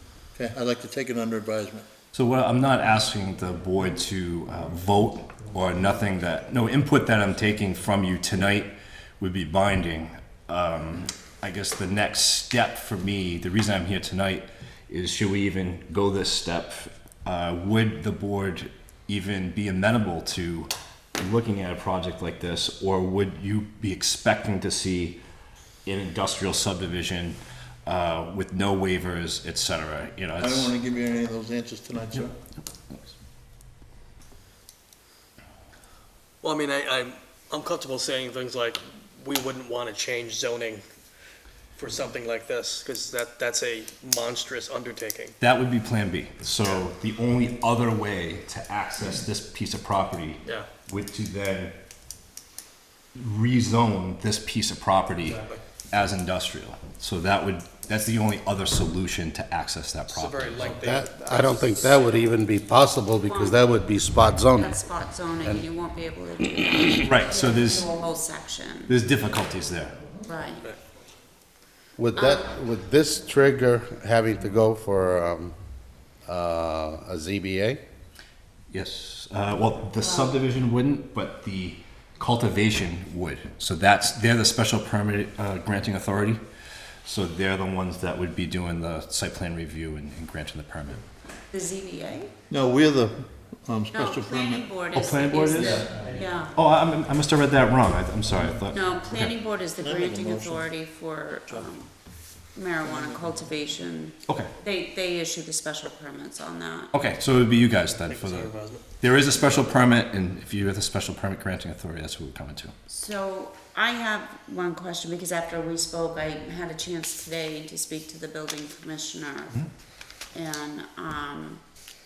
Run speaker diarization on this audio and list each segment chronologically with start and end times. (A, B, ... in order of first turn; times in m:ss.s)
0:00.3-0:01.9 A
0:02.1-0:25.2 B
0:25.8-0:30.7 B
0:30.4-0:32.3 A
0:36.4-0:40.8 C
0:41.8-0:45.4 C
0:45.4-0:51.8 B
0:53.2-1:00.6 B
0:55.2-0:55.6 C
1:00.1-1:02.0 C
1:00.6-1:04.8 D
1:03.2-1:03.6 E
1:04.6-1:09.0 E
1:07.0-1:07.9 B
1:08.9-1:10.0 B
1:10.3-1:10.7 E
1:12.0-1:15.6 D
1:12.1-1:12.4 E
1:16.3-1:17.8 D
1:18.7-1:26.4 B
1:27.0-1:31.0 B
1:31.5-1:32.3 E
1:32.5-1:34.7 A
1:33.9-1:36.6 E
1:34.9-1:39.3 B
1:35.5-1:36.1 A
1:38.7-1:42.0 E
1:39.8-1:40.7 A
1:42.5-1:46.9 E
1:42.8-1:43.2 A
1:44.3-1:44.5 B
1:46.9-1:52.7 B
1:48.0-1:48.8 C
1:52.9-1:59.7 E
2:00.3-2:01.6 E